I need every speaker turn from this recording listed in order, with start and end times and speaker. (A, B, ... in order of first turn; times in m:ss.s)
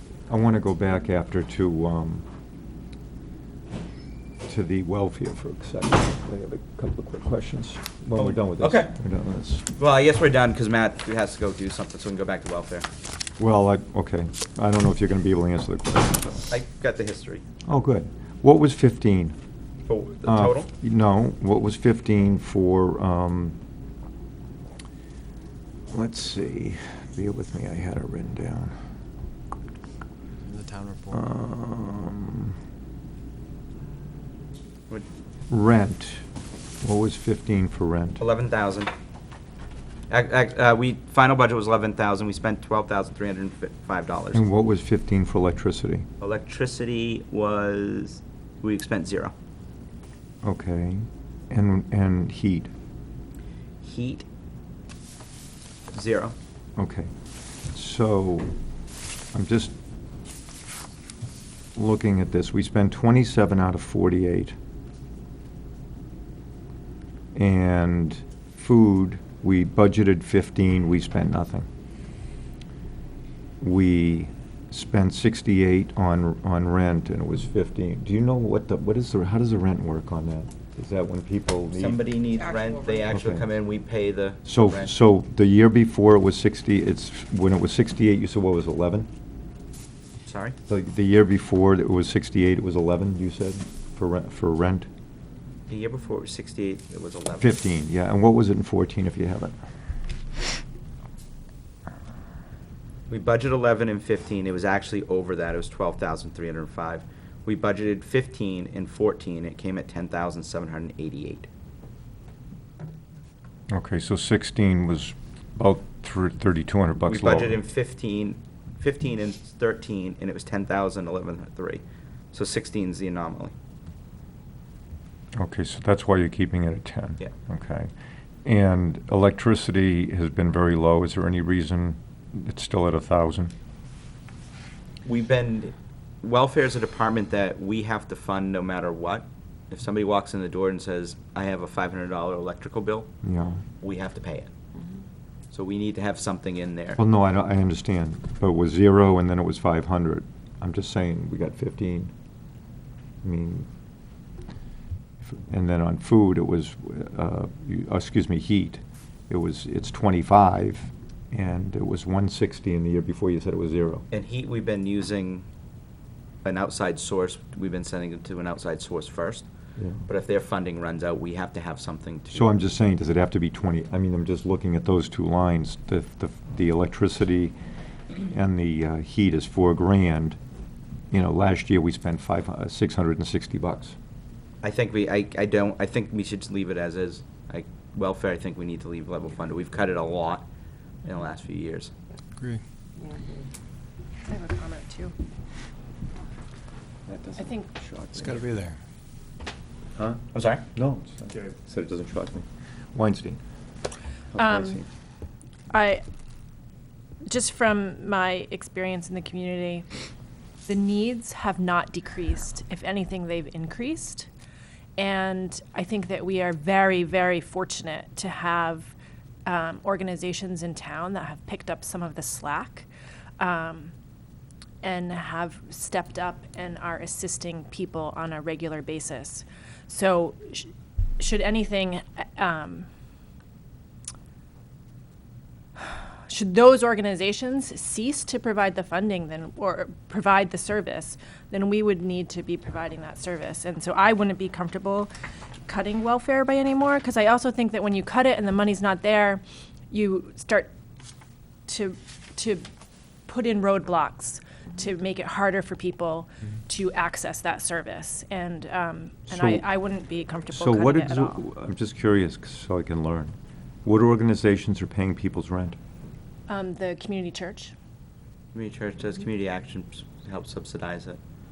0:00.3-0:02.2 A
0:04.4-0:09.6 A
0:08.2-0:09.0 B
0:09.8-0:12.9 B
0:13.4-0:16.5 A
0:16.5-0:17.4 B
0:17.7-0:19.4 A
0:19.9-0:20.7 B
0:20.2-0:23.6 A
0:25.9-0:28.8 A
0:30.5-0:31.2 C
0:31.1-0:32.6 A
0:35.5-0:36.2 A
0:36.8-0:38.2 A
0:38.2-0:38.9 B
0:40.1-0:44.4 B
0:44.3-0:46.1 A
0:46.2-0:49.3 B
0:50.4-0:52.7 A
0:53.8-0:54.3 B
0:55.9-0:56.4 B
0:56.8-0:57.1 A
0:57.7-0:58.5 A
0:59.3-0:59.7 A
1:01.8-1:04.6 A
1:07.4-1:11.7 A
1:13.6-1:22.0 A
1:21.7-1:25.0 B
1:23.1-1:23.4 A
1:24.4-1:29.1 A
1:30.2-1:30.6 B
1:30.7-1:34.9 A
1:35.7-1:37.6 B
1:37.4-1:39.6 A
1:43.1-1:51.5 B
1:53.7-1:57.6 A
1:57.1-2:03.5 B
2:05.4-2:07.9 A
2:08.4-2:13.5 A
2:15.0-2:23.1 B
2:23.2-2:23.6 A
2:23.8-2:24.5 B
2:25.5-2:27.0 B
2:27.0-2:32.1 A
2:33.2-2:33.7 A
2:35.2-2:44.1 A
2:44.1-2:45.5 B
2:46.4-2:49.5 B
2:49.8-2:50.0 A
2:50.0-2:52.6 B
2:52.3-2:57.5 A
2:58.2-3:00.4 A
3:01.1-3:04.0 A
3:04.6-3:10.5 B
3:11.0-3:11.9 B
3:12.4-3:13.2 C
3:14.3-3:15.1 D
3:17.1-3:18.4 A
3:17.4-3:17.7 D
3:18.1-3:18.8 C
3:20.3-3:20.6 B
3:20.7-3:23.4 A
3:24.3-3:24.9 A
3:24.4-3:24.8 D
3:25.7-3:26.0 D
3:27.2-3:29.9 D
3:30.7-3:34.3 D
3:35.0-3:39.0 D
3:39.5-3:42.9 D
3:43.4-3:43.9 D
3:44.8-3:52.9 D
3:55.8-4:05.1 D
4:05.7-4:10.7 D
4:11.7-4:12.6 D
4:13.3-4:21.4 D
4:19.3-4:19.7 A
4:20.5-4:25.8 A
4:26.5-4:27.7 D
4:28.5-4:31.2 B